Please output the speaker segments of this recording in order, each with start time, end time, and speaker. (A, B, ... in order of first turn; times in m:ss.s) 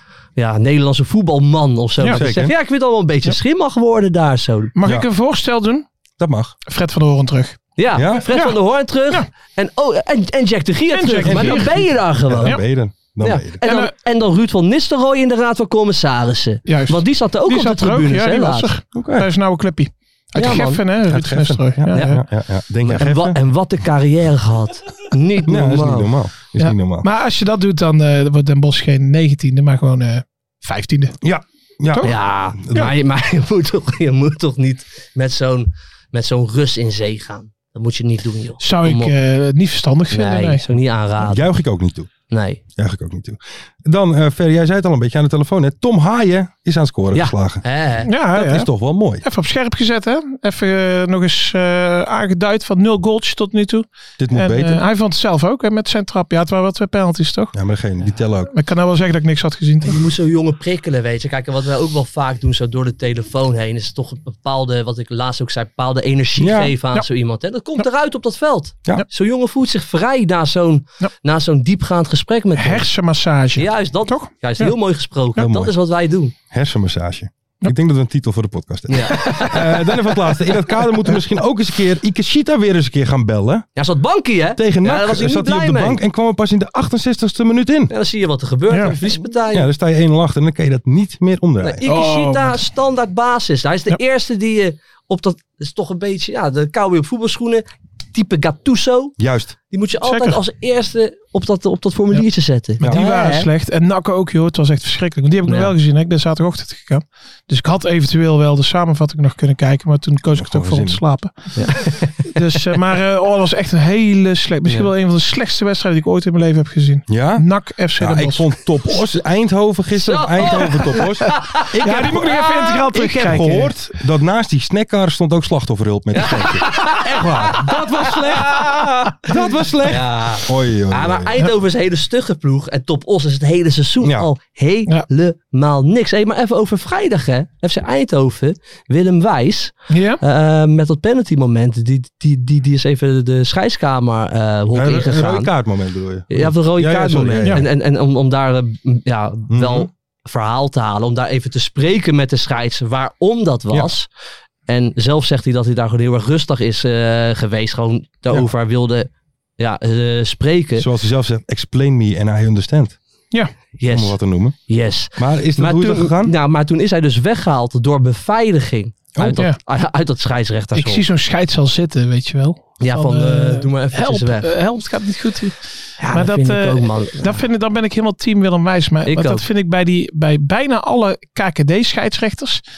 0:00.4-0:04.7 A
0:02.1-0:02.5 B
0:04.8-0:05.8 C
0:06.2-0:06.6 B
0:06.7-0:07.7 C
0:07.8-0:12.6 A
0:07.9-0:08.2 B
0:08.3-0:08.6 C
0:10.9-0:11.7 C
0:11.2-0:13.6 B
0:13.2-0:18.7 A
0:13.6-0:13.9 C
0:16.6-0:22.2 C
0:18.9-0:19.3 B
0:20.3-0:20.8 A
0:21.0-0:23.4 B
0:22.8-0:26.1 A
0:25.4-0:27.1 B
0:26.6-0:31.2 C
0:31.2-0:32.9 B
0:32.0-0:39.1 A
0:38.6-0:40.7 C
0:40.1-0:41.4 A
0:41.2-0:42.1 B
0:42.3-0:42.6 A
0:42.8-0:47.6 B
0:47.1-0:48.1 A
0:48.0-0:48.7 C
0:48.3-0:49.2 B
0:49.2-0:57.5 C
0:54.2-0:54.8 B
0:57.5-0:58.5 B
0:58.5-1:00.0 C
0:59.8-1:12.9 A
1:06.4-1:06.7 B
1:12.6-1:14.7 C
1:13.5-1:16.3 A
1:15.4-1:15.7 B
1:16.5-1:23.7 B
1:18.9-1:19.9 A
1:23.8-1:26.0 A
1:24.6-1:27.9 B
1:27.9-1:29.6 A
1:28.7-1:28.9 C
1:29.5-1:31.8 B
1:31.6-1:39.1 A
1:31.9-1:32.6 C
1:39.2-1:39.5 B
1:39.7-1:43.5 A
1:40.0-1:40.4 C
1:42.8-1:58.5 C
1:42.8-1:43.1 B
1:45.4-1:45.7 A
1:50.3-1:51.0 B
1:51.6-1:52.1 A
1:57.1-2:11.4 B
2:00.0-2:02.0 A
2:01.8-2:03.7 C
2:06.1-2:09.3 A
2:09.9-2:25.5 A
2:14.0-2:14.3 B
2:19.9-2:20.2 C
2:24.7-2:27.6 B
2:26.3-2:34.1 A
2:29.5-2:29.9 B
2:34.7-2:40.9 A
2:40.8-2:43.0 B
2:43.8-2:44.2 A
2:43.9-2:44.6 B
2:44.7-2:51.0 A
2:45.2-2:46.3 B
2:49.1-2:49.4 B
2:49.2-2:49.6 C
2:50.7-2:55.6 C
2:52.8-2:54.5 A
2:56.0-2:57.4 A
2:56.1-3:02.6 C
2:59.0-2:59.4 A